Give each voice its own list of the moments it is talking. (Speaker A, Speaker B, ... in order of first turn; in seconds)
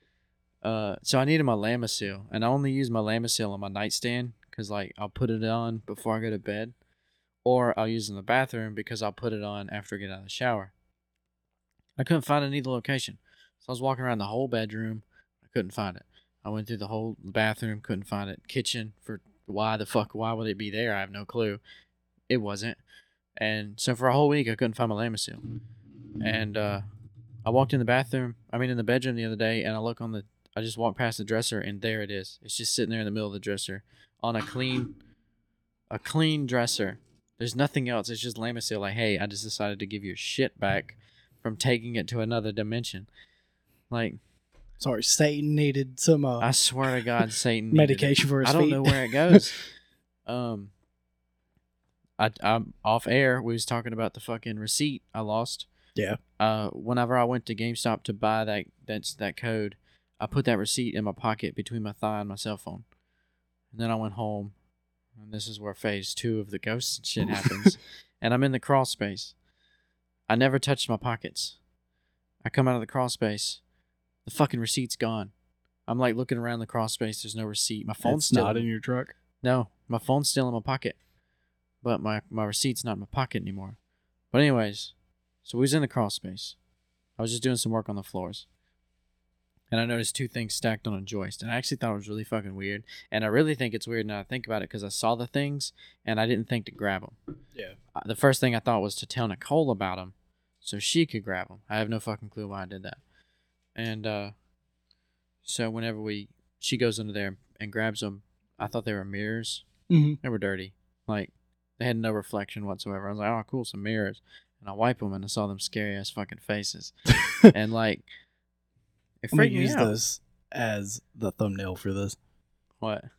Speaker A: 0.6-6.7, 7.4-10.7, 12.0-21.6, 22.3-22.8, 23.4-25.4, 26.2-26.8, 27.4-34.9, 35.9-43.1, 43.9-44.2, 46.4-49.6, 50.2-50.7, 52.2-55.7, 56.4-62.8, 63.7-64.5, 65.2-69.3, 70.3-71.6, 72.4-73.6, 74.2-75.3, 75.9-78.6, 79.4-81.0, 81.8-83.8, 84.3-84.9, 85.4-86.5, 87.2-88.5, 89.7-97.2, 97.9-103.0, 103.8-104.3, 105.4-109.7, 110.2-118.0, 119.2-119.9, 122.8-123.1
Speaker B: 44.8-46.5, 47.7-49.4, 67.3-67.7, 78.0-79.1, 109.9-110.2, 119.3-122.2